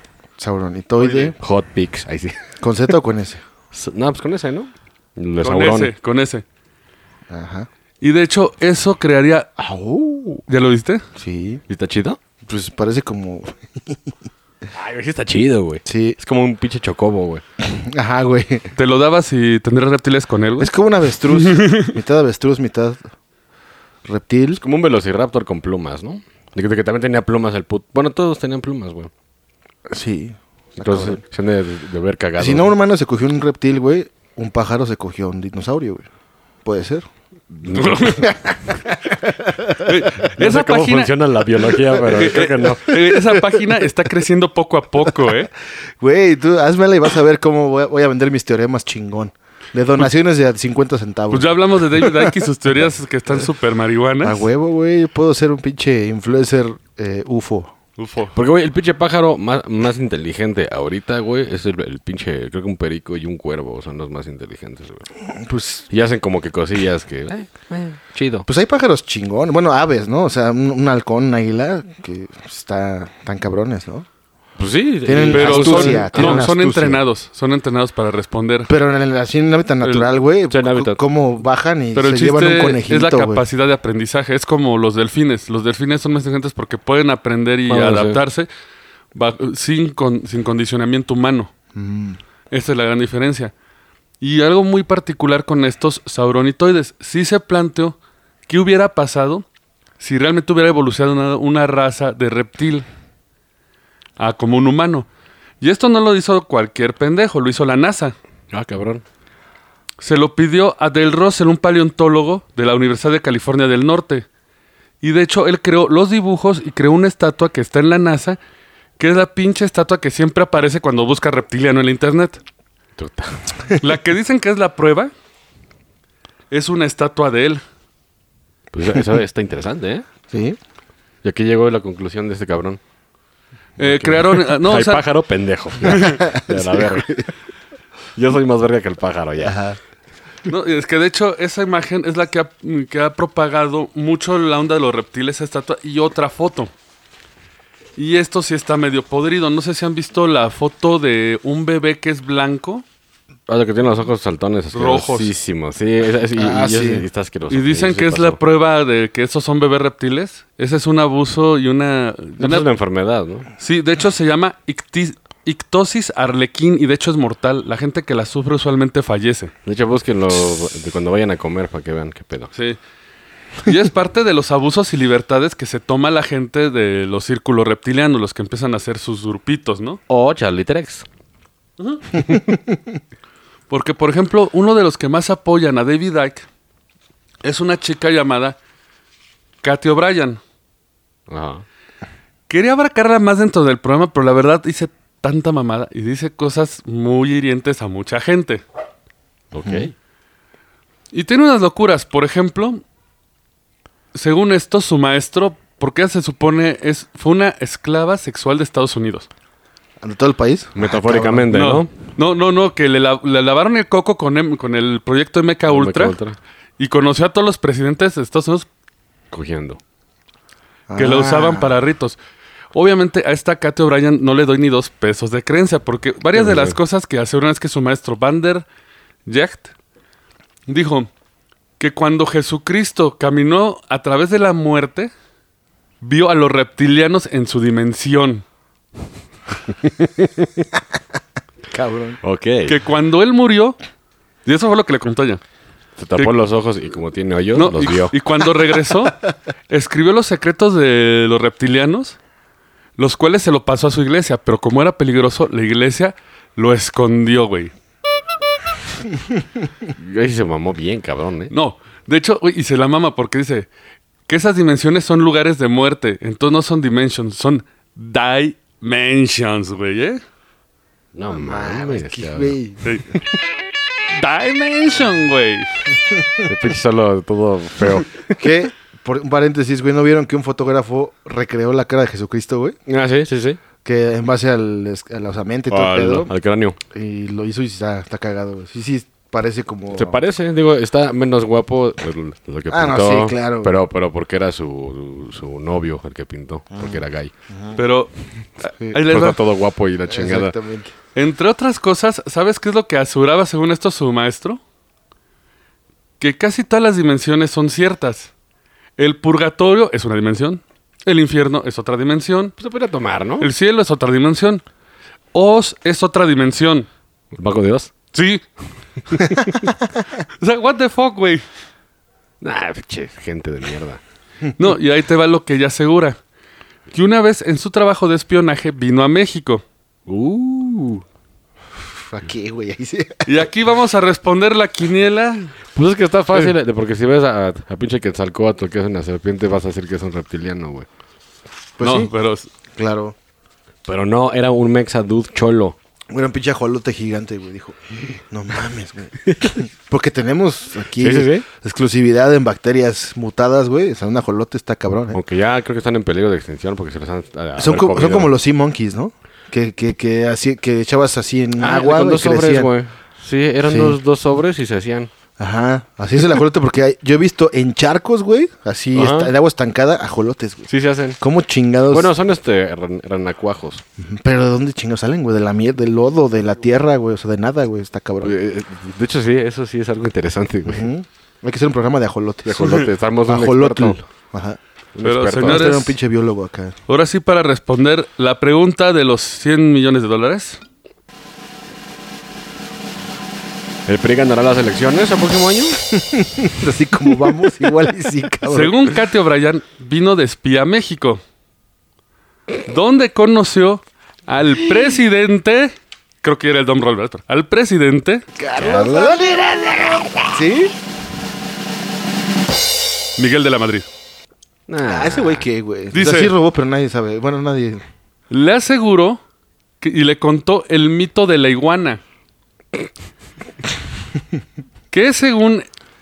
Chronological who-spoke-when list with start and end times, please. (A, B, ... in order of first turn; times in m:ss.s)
0:00.4-0:01.4 A
0:01.0-0:01.3 B
0:01.4-0:02.4 C
0:02.6-0:03.4 A
0:03.7-0:05.9 C
0:05.4-0:06.4 B
0:07.3-0:07.7 A
0:08.0-0:09.5 B
0:09.6-0:10.4 A
0:10.5-0:11.0 B
0:11.2-0:11.6 A
0:11.7-0:12.2 C
0:12.4-0:14.2 A
0:14.7-0:17.4 C
0:15.8-0:16.2 A
0:17.6-0:18.7 A
0:18.8-0:20.7 B
0:20.6-0:23.0 A
0:21.3-0:22.0 B
0:24.0-0:24.6 A
0:24.6-0:29.1 C
0:29.9-0:31.2 A
0:30.8-0:32.7 C
0:32.4-0:36.1 A
0:36.6-0:37.1 A
0:37.5-0:38.3 C
0:37.8-0:38.3 B
0:38.2-0:39.9 A
0:39.8-0:41.2 B
0:40.2-0:43.0 C
0:42.0-0:45.5 B
0:46.0-0:52.3 A
0:51.3-0:54.5 B
0:54.2-0:57.7 A
0:58.0-0:58.4 B
0:58.4-1:05.1 C
1:05.2-1:05.9 A
1:05.9-1:08.5 C
1:08.5-1:14.1 A
1:14.6-1:16.5 C
1:15.0-1:17.0 A
1:15.3-1:18.7 B
1:18.7-1:23.4 A
1:20.5-1:21.0 C
1:22.0-1:28.5 B
1:27.7-1:28.2 C
1:29.1-1:31.5 B
1:31.7-1:32.2 A
1:32.5-1:33.5 B
1:34.2-1:39.5 B
1:40.0-1:42.8 B
1:44.2-1:45.1 B
1:45.6-1:48.2 B
1:48.5-1:49.0 C
1:50.0-1:54.3 B
1:55.0-1:58.4 B
1:59.0-2:02.4 B
2:03.0-2:03.4 C
2:03.8-2:05.1 B
2:06.5-2:07.6 B
2:08.7-2:10.0 C
2:10.3-2:10.6 A
2:11.2-2:12.8 C
2:13.8-2:15.1 B
2:13.8-2:17.2 C
2:15.8-2:17.3 A
2:15.9-2:16.2 B
2:18.2-2:19.6 C
2:19.4-2:19.8 A
2:20.5-2:26.7 B
2:28.0-2:32.8 B
2:33.5-2:38.4 C
2:34.7-2:35.3 B
2:36.4-2:37.1 A
2:37.5-2:42.7 B
2:42.4-2:43.5 C
2:43.6-2:49.5 B
2:49.6-2:52.5 C
2:53.6-3:00.0 B
3:00.1-3:01.1 C
3:03.7-3:06.5 B
3:07.4-3:08.6 B
3:09.6-3:10.4 B
3:11.3-3:11.6 C
3:12.5-3:18.6 B
3:19.5-3:19.9 C
3:21.1-3:22.8 B
3:24.1-3:29.3 B
3:30.0-3:31.6 A
3:30.8-3:31.9 C
3:31.5-3:36.2 B
3:35.7-3:36.4 C
3:36.8-3:38.7 B
3:39.3-3:39.8 C
3:40.9-3:41.8 A
3:41.0-3:42.2 B
3:42.7-3:48.7 B
3:46.3-3:46.8 C
3:49.3-3:49.7 B
3:50.7-3:51.1 B
3:51.8-3:55.1 B
3:56.0-3:58.4 B
4:00.0-4:00.6 C
4:01.7-4:02.2 A
4:02.2-4:02.8 C
4:02.7-4:03.8 B
4:04.4-4:05.4 B
4:06.0-4:08.2 C
4:07.6-4:09.2 B
4:09.7-4:12.2 B
4:13.0-4:17.7 B
4:20.0-4:21.5 C
4:21.5-4:23.7 B
4:24.3-4:30.2 B
4:31.2-4:32.6 C
4:31.3-4:33.0 A
4:34.1-4:35.7 B
4:36.4-4:38.4 C
4:38.3-4:42.8 A
4:42.9-4:43.6 C
4:43.8-4:46.3 A
4:45.7-4:46.8 C
4:46.9-4:50.2 A
4:49.9-4:57.3 C
4:52.7-4:53.7 A
4:56.8-4:57.8 A
4:57.8-4:59.4 B
4:59.1-5:00.5 C
5:00.1-5:00.9 A
5:01.2-5:04.6 B
5:06.2-5:08.3 B
5:09.0-5:12.5 B
5:12.6-5:13.5 C
5:13.4-5:14.6 B
5:15.3-5:16.9 B
5:17.3-5:17.9 C
5:18.1-5:18.4 B
5:20.2-5:21.4 B
5:22.4-5:24.0 C
5:24.6-5:26.2 B
5:26.9-5:29.6 B
5:30.1-5:31.0 C
5:31.8-5:33.3 A
5:33.3-5:35.5 B
5:35.8-5:40.9 C
5:41.8-5:42.1 A
5:41.8-5:42.5 B
5:42.8-5:43.2 A
5:43.9-5:45.8 C
5:46.1-5:55.2 A
5:49.3-5:49.5 C
5:51.0-5:51.4 C
5:55.1-5:58.3 C
5:57.6-6:02.7 A
6:01.6-6:05.1 C
6:03.7-6:04.0 A
6:05.4-6:10.7 A
6:08.9-6:09.3 C
6:10.7-6:11.2 C
6:11.2-6:12.1 A
6:11.9-6:13.8 C
6:14.0-6:18.4 A
6:18.2-6:20.9 C
6:20.7-6:24.6 A
6:22.4-6:24.0 C
6:25.0-6:25.8 C
6:25.0-6:26.0 B
6:25.4-6:26.8 A
6:26.9-6:30.6 B
6:33.9-6:35.8 C
6:35.9-6:38.8 A
6:38.5-6:41.2 B
6:42.7-6:48.2 B
6:48.4-6:49.5 A
6:48.6-6:50.4 C
6:50.3-6:50.7 A
6:53.2-6:53.9 B
6:54.7-6:55.4 C
6:54.9-6:57.8 A
6:55.9-6:56.3 B
6:58.3-6:59.2 B
6:59.8-7:02.0 B
7:04.9-7:05.7 B